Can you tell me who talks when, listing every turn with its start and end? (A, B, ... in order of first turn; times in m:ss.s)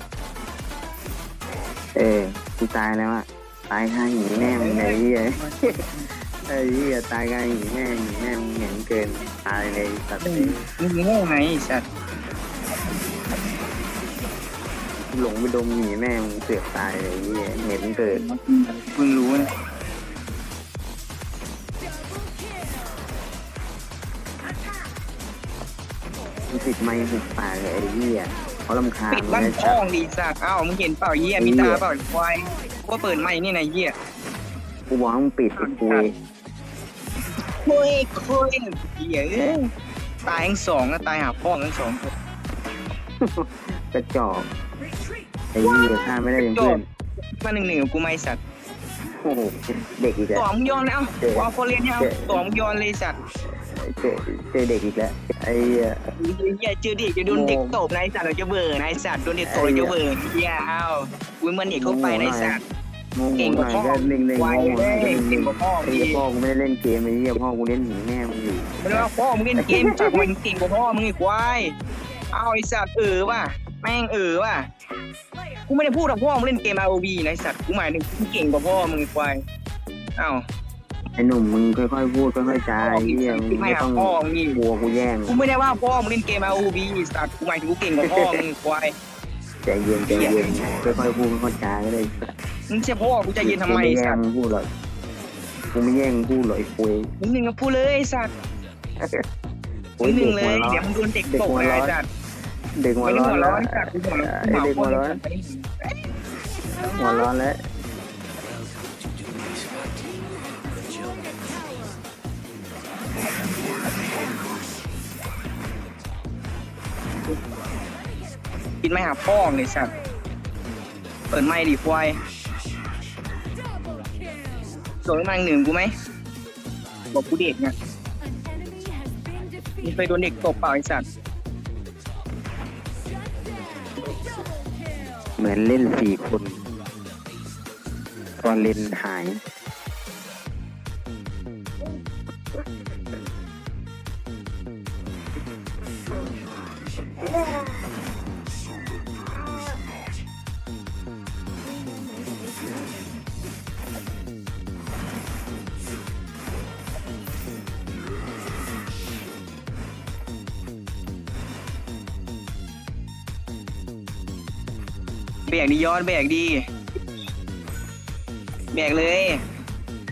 0:02.0-0:05.8 A
0:04.4-0:06.1 B
0:06.3-0:10.6 A
0:10.2-0:11.8 B
0:15.1-0:18.2 A
0:18.1-0:19.5 B
0:26.5-0:29.8 A
0:29.1-0:33.9 B
0:31.4-0:31.8 A
0:34.9-0:36.2 A
0:35.6-0:36.1 B
0:37.6-0:39.7 B
0:40.2-0:42.1 B
0:43.2-0:44.5 A
0:45.6-0:46.8 A
0:45.6-0:46.8 B
0:47.4-0:48.4 B
0:49.2-0:50.5 A
0:50.3-0:53.2 B
0:51.2-0:52.4 A
0:53.8-0:56.0 A
0:56.2-1:02.6 B
0:57.3-0:57.8 A
0:59.4-1:00.0 A
1:01.7-1:02.6 A
1:03.2-1:10.3 A
1:03.4-1:06.2 B
1:08.8-1:11.8 B
1:12.3-1:14.7 B
1:15.7-1:19.4 B
1:20.2-1:20.4 B
1:21.2-1:25.4 A
1:22.5-1:24.6 B
1:25.3-1:28.9 B
1:28.1-1:28.4 A
1:29.6-1:32.2 A
1:30.1-1:30.4 B
1:32.7-1:34.2 B
1:33.4-1:34.7 A
1:35.7-1:37.1 A
1:37.2-1:38.3 B
1:40.0-1:42.0 A
1:40.0-1:42.1 B
1:42.8-1:45.2 A
1:43.0-1:45.9 B
1:46.7-1:47.6 A
1:50.8-1:51.8 C
1:58.8-1:59.9 B
2:01.3-2:02.2 B
2:03.9-2:04.5 C
2:05.0-2:05.9 B
2:07.1-2:07.7 B
2:08.3-2:09.7 C
2:09.8-2:11.1 B
2:13.6-2:15.1 C
2:15.4-2:16.6 A
2:18.4-2:19.4 A
2:45.5-2:46.7 B
2:48.7-2:49.4 B